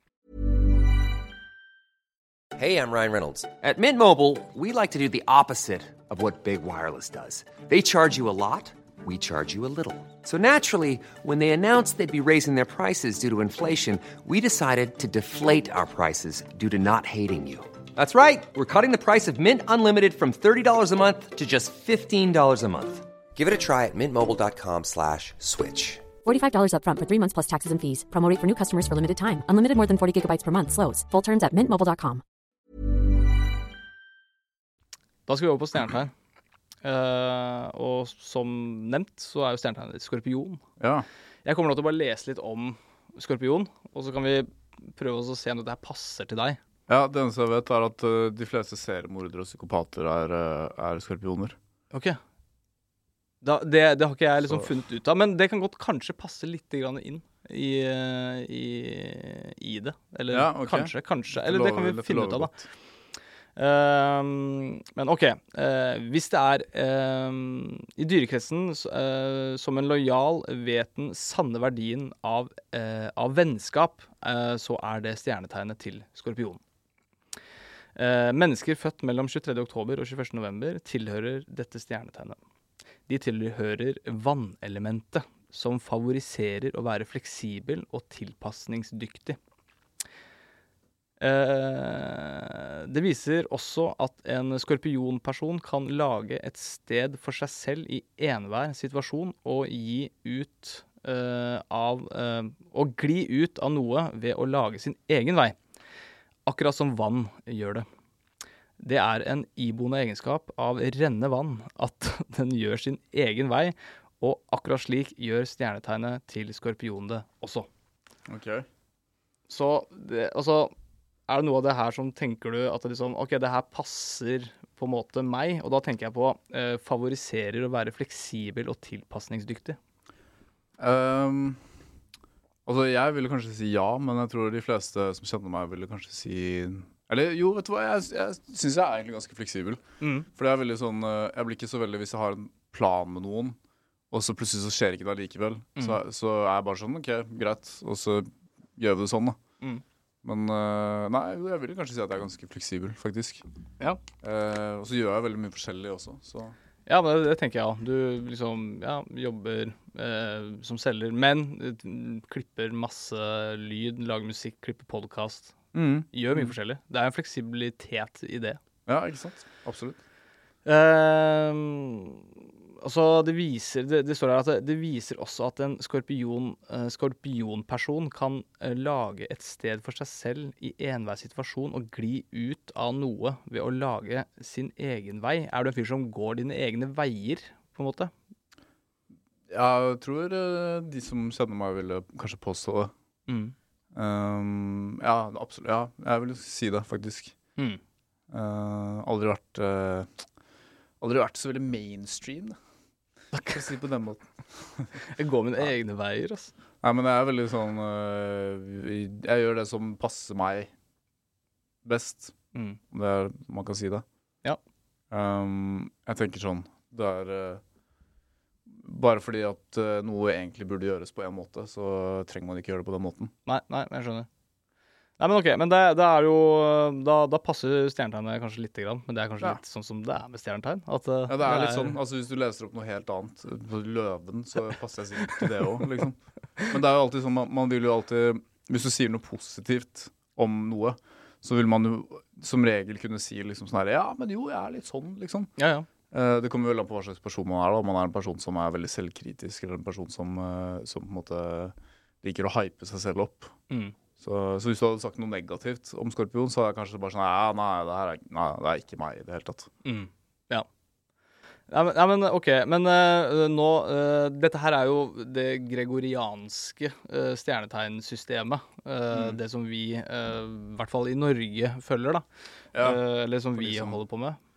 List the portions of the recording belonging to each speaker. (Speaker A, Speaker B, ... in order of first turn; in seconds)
Speaker A: 2.5-26.1
Speaker B: 26.2-32.2
Speaker C: 35.3-36.1, 36.8-40.6, 41.4-46.6, 51.9-52.2, 53.4-62.5, 63.5-76.6, 78.0-82.4, 83.1-89.4, 91.2-105.6, 106.5-107.8, 108.8-117.7, 119.5-120.7, 121.3-129.8, 140.0-140.3, 156.8-165.6, 166.1-168.6, 170.6-172.3, 172.8-188.1, 193.3-193.5, 203.3-203.6, 205.1-206.5, 212.5-212.8, 223.4-224.3, 225.2-232.0, 245.6-245.9, 253.7-253.9, 259.8-260.6, 261.7-272.2, 272.8-274.4
Speaker D: 40.8-41.0, 46.9-51.6, 60.3-62.6, 118.3-118.7, 130.8-131.6, 132.7-143.6, 144.1-149.4, 150.2-153.4, 154.2-156.5, 165.7-166.5, 168.9-170.0, 189.5-192.9, 193.9-197.3, 198.3-200.1, 201.0-202.6, 203.5-205.0, 206.8-210.7, 211.8-212.3, 212.9-214.0, 215.1-217.6, 218.7-223.3, 231.3-245.5, 246.1-253.5, 254.2-259.7, 269.1-269.4, 272.7-273.0, 273.6-274.0